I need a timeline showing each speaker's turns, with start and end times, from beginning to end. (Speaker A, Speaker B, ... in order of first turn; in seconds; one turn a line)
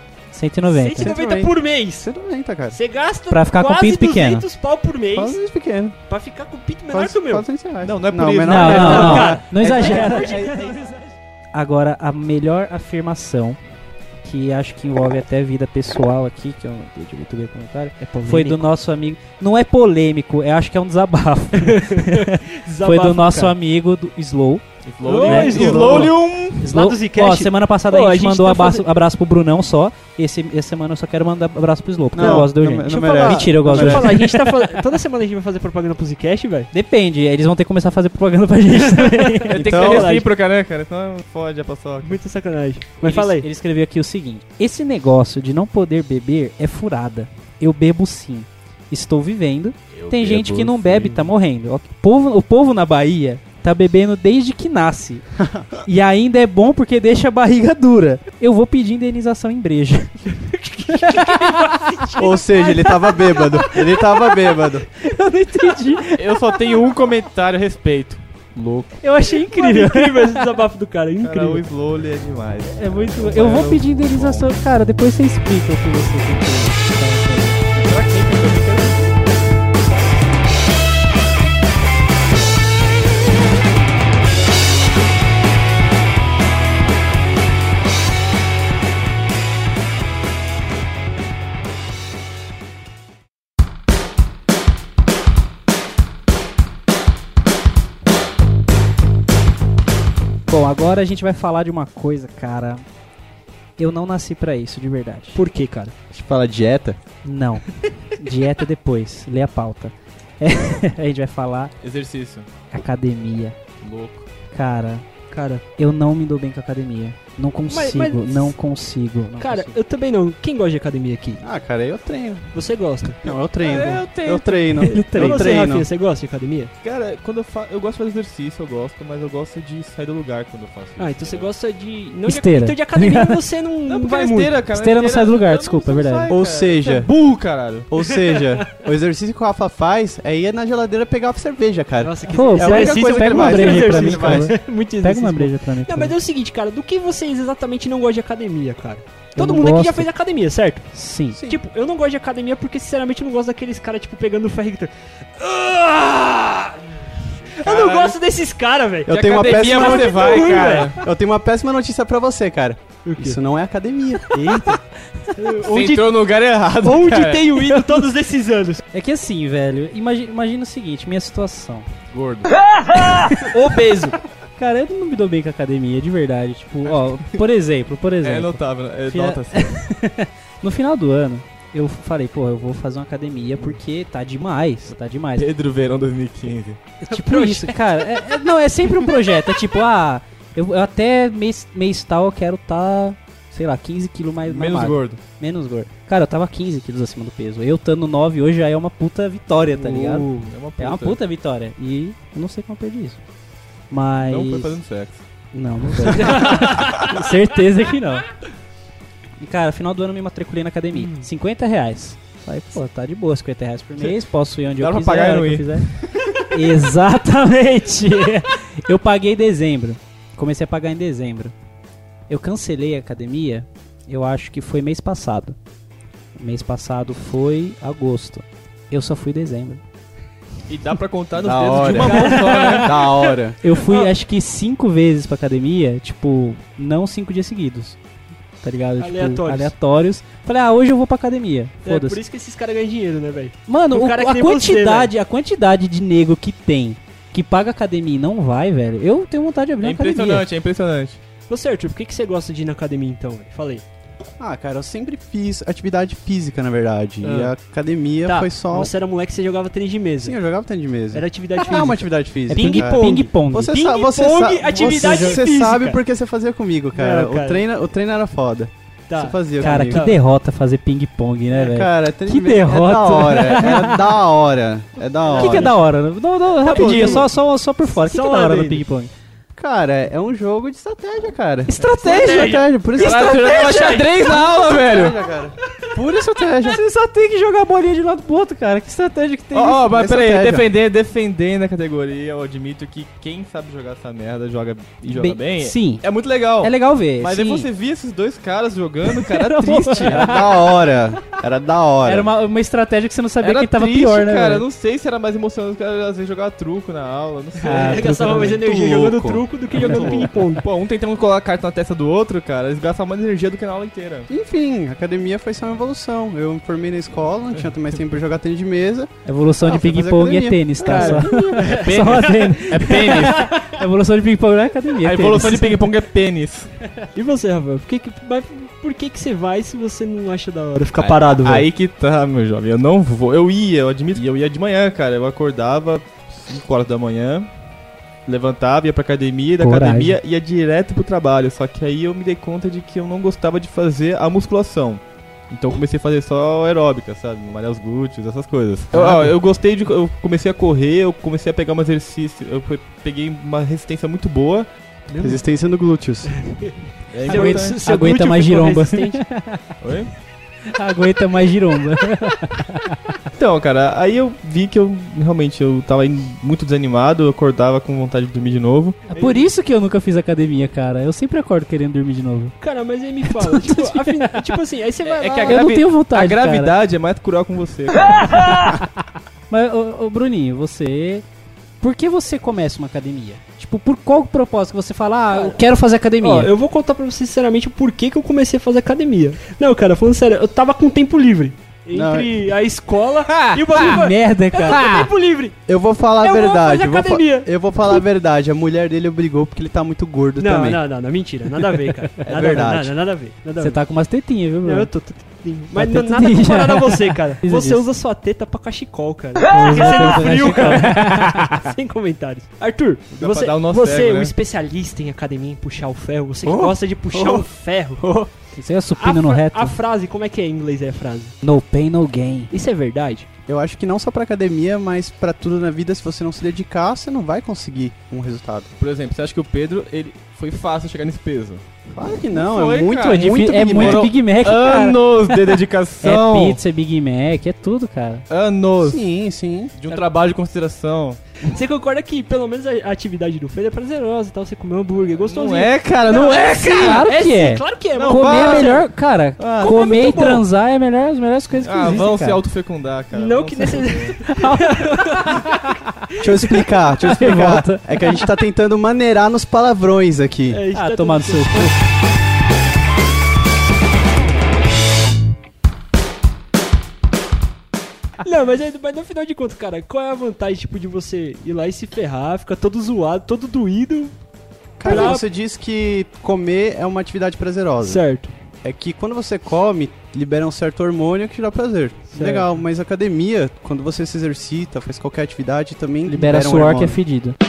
Speaker A: 0.3-1.1
Speaker B: 0.7-2.1
Speaker C: 1.0-2.8
Speaker B: 2.7-5.4
Speaker A: 3.3-4.4
Speaker C: 5.1-6.0
Speaker B: 6.1-7.5
Speaker C: 6.9-10.5
Speaker D: 7.8-10.5
Speaker A: 8.5-10.4
Speaker B: 8.6-11.0
Speaker A: 11.5-13.6
Speaker A: 14.2-24.6
Speaker B: 18.0-18.6
Speaker B: 21.6-23.5
Speaker D: 24.8-26.7
Speaker B: 25.0-28.9
Speaker A: 25.2-34.5
Speaker C: 32.1-34.1
Speaker B: 32.2-32.5
Speaker B: 33.2-36.7
Speaker A: 36.7-39.5
Speaker B: 38.7-40.3
Speaker D: 39.5-42.2
Speaker C: 39.6-40.1
Speaker B: 42.0-43.5
Speaker A: 43.0-55.2
Speaker D: 49.9-51.3
Speaker C: 55.4-55.7
Speaker A: 55.8-60.3
Speaker B: 60.3-62.9
Speaker A: 60.9-62.0
Speaker C: 62.2-64.8
Speaker A: 65.0-66.7
Speaker D: 66.2-68.9
Speaker A: 69.0-70.4
Speaker B: 69.3-71.6
Speaker D: 71.2-74.5
Speaker A: 72.7-77.6
Speaker D: 77.7-79.1
Speaker A: 100.5-102.8
Speaker A: 103.8-105.4
Speaker B: 105.3-105.9
Speaker C: 106.1-107.0
Speaker A: 107.2-107.7
Speaker A: 108.2-111.7
Speaker D: 111.8-112.5
Speaker A: 112.7-113.6
Speaker D: 113.8-114.2
Speaker A: 114.5-115.0
Speaker B: 115.3-115.6
Speaker A: 115.8-119.7
Speaker B: 117.7-118.5
Speaker B: 119.4-121.4
Speaker C: 121.4-122.5
Speaker B: 122.5-124.0
Speaker C: 123.2-125.8
Speaker D: 123.6-124.9
Speaker A: 124.8-125.5
Speaker B: 125.1-126.7
Speaker D: 126.8-131.5
Speaker B: 131.0-134.6
Speaker A: 132.2-133.4
Speaker D: 133.9-137.9
Speaker A: 134.7-136.3
Speaker C: 136.3-137.1
Speaker C: 137.9-144.5
Speaker B: 138.2-138.7
Speaker B: 142.0-150.9
Speaker A: 142.3-146.1
Speaker A: 149.3-150.1
Speaker A: 150.9-151.4
Speaker C: 151.3-151.6
Speaker B: 151.4-156.8
Speaker B: 157.6-161.0
Speaker D: 157.6-158.2
Speaker C: 159.1-164.3
Speaker D: 159.1-161.0
Speaker B: 163.0-163.4
Speaker A: 164.4-164.8
Speaker B: 165.4-166.2
Speaker D: 165.6-167.8
Speaker B: 166.8-168.8
Speaker A: 168.9-171.9
Speaker D: 172.1-172.5
Speaker B: 173.4-174.2
Speaker A: 174.6-185.5
Speaker D: 178.2-179.8
Speaker D: 185.4-186.8
Speaker A: 187.1-203.2
Speaker B: 187.1-187.8
Speaker D: 194.4-195.2
Speaker D: 199.8-201.2
Speaker B: 200.1-200.5
Speaker A: 203.9-204.8
Speaker D: 204.2-205.2
Speaker A: 205.5-208.2
Speaker D: 206.0-207.1
Speaker B: 206.2-206.9
Speaker A: 209.4-215.9
Speaker B: 210.9-211.2
Speaker D: 214.8-216.4
Speaker A: 216.5-221.5
Speaker A: 222.3-225.6
Speaker A: 226.4-229.8
Speaker D: 230.7-233.0
Speaker C: 231.4-233.6
Speaker B: 232.0-232.9
Speaker A: 232.1-232.9
Speaker A: 233.6-238.0
Speaker B: 233.8-234.1
Speaker A: 238.6-242.2
Speaker B: 239.0-239.7
Speaker B: 241.8-245.1
Speaker A: 243.7-250.4
Speaker D: 249.8-251.2
Speaker B: 251.5-253.8
Speaker C: 254.4-258.9
Speaker B: 258.2-260.4
Speaker C: 260.2-270.1
Speaker B: 261.1-266.0
Speaker A: 262.5-263.7
Speaker A: 264.8-265.4
Speaker B: 266.9-267.6
Speaker B: 269.1-270.2
Speaker A: 269.6-274.1
Speaker C: 271.5-275.7
Speaker B: 275.3-275.7
Speaker A: 275.3-279.1
Speaker D: 276.6-277.2
Speaker C: 276.6-277.2
Speaker B: 276.6-277.2
Speaker B: 277.9-278.8
Speaker C: 279.6-283.7
Speaker A: 281.7-282.4
Speaker B: 281.8-284.2
Speaker D: 282.9-285.2
Speaker C: 284.3-286.8
Speaker A: 286.6-289.9
Speaker D: 289.5-300.4
Speaker C: 289.9-290.7
Speaker A: 295.1-296.0
Speaker A: 296.6-297.7
Speaker A: 299.1-300.4
Speaker C: 300.1-302.3
Speaker A: 302.0-304.6
Speaker D: 303.4-314.3
Speaker B: 307.6-310.6
Speaker A: 307.6-308.6
Speaker C: 314.3-321.7
Speaker A: 319.2-325.9
Speaker B: 320.9-322.2
Speaker D: 321.6-323.5
Speaker B: 322.8-323.5
Speaker D: 325.0-326.7
Speaker B: 327.1-331.7
Speaker D: 330.9-337.5
Speaker D: 338.2-354.7
Speaker A: 339.6-340.2
Speaker B: 355.1-355.4
Speaker C: 355.2-356.4
Speaker B: 356.3-359.2
Speaker D: 357.1-357.8
Speaker A: 357.2-359.6
Speaker D: 359.8-360.1
Speaker A: 360.8-363.0
Speaker D: 363.3-369.0
Speaker A: 369.1-372.5
Speaker B: 369.1-369.5
Speaker B: 372.6-375.6
Speaker A: 373.4-374.3
Speaker D: 375.0-378.7
Speaker A: 375.4-376.8
Speaker A: 379.5-381.2
Speaker A: 381.8-386.5
Speaker B: 385.3-385.6
Speaker B: 386.2-395.6
Speaker C: 391.9-392.3
Speaker A: 393.3-395.1
Speaker C: 395.7-400.8
Speaker B: 396.2-398.0
Speaker B: 400.4-403.8
Speaker C: 402.2-402.9
Speaker A: 403.6-404.9
Speaker B: 404.6-418.1
Speaker A: 405.7-407.8
Speaker A: 409.5-411.6
Speaker D: 413.1-414.3
Speaker C: 416.4-417.5
Speaker C: 418.0-418.3
Speaker A: 418.6-419.8
Speaker B: 419.0-421.3
Speaker A: 421.4-422.5
Speaker B: 422.5-423.3
Speaker C: 423.5-428.7
Speaker D: 428.8-431.6
Speaker C: 431.9-434.1
Speaker D: 432.3-436.6
Speaker A: 433.0-435.3
Speaker A: 436.0-438.2
Speaker D: 438.3-439.0
Speaker C: 438.8-439.7
Speaker D: 439.8-441.2
Speaker B: 441.4-448.8
Speaker D: 445.2-447.1
Speaker A: 446.8-452.4
Speaker D: 447.9-448.9
Speaker D: 449.4-450.2
Speaker B: 449.6-450.4
Speaker D: 451.6-454.2
Speaker B: 453.1-455.4
Speaker A: 454.3-455.7
Speaker C: 456.2-460.6
Speaker A: 456.4-458.2
Speaker B: 460.5-461.8
Speaker A: 460.7-461.7
Speaker B: 468.2-474.1
Speaker C: 474.8-478.0
Speaker B: 474.8-475.2
Speaker B: 477.8-478.3
Speaker C: 478.6-487.0
Speaker B: 482.1-482.6
Speaker A: 486.1-487.4